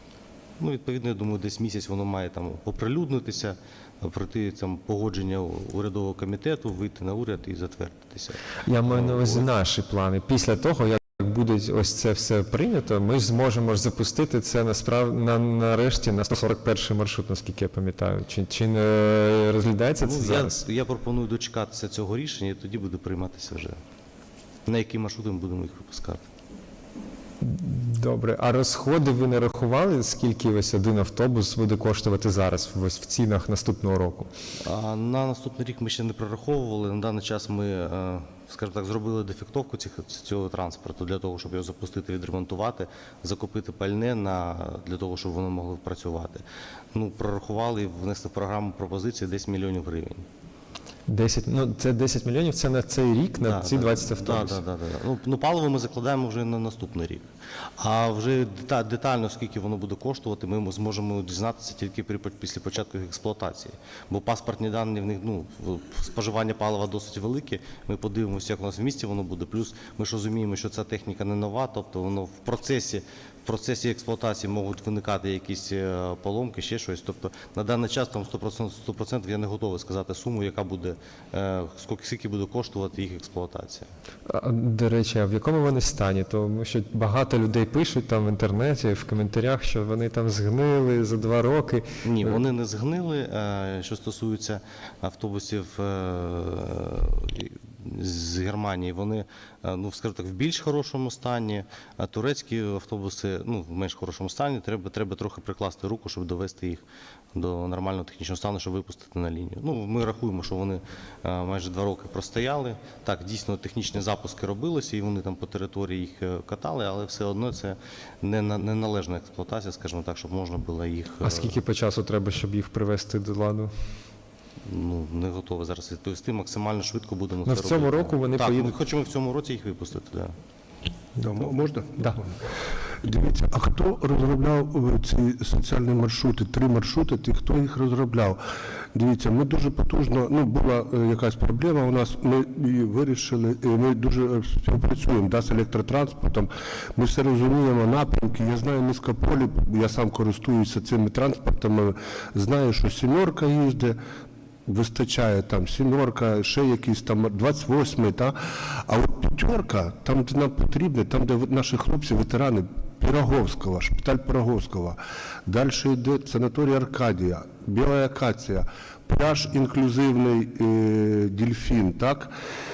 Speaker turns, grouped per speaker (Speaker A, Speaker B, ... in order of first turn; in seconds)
Speaker A: 0.6-9.4, 20.0-23.8, 24.6-26.2, 34.6-50.2, 53.4-57.2, 57.8-83.9, 92.0-106.8, 107.3-121.6, 124.6-130.3
Speaker B: 8.7-20.6, 27.4-34.3, 51.1-54.6, 84.3-92.3, 121.2-123.7, 127.5-128.7
Speaker C: 131.2-132.3, 133.0-138.4, 138.9-154.0, 154.7-172.3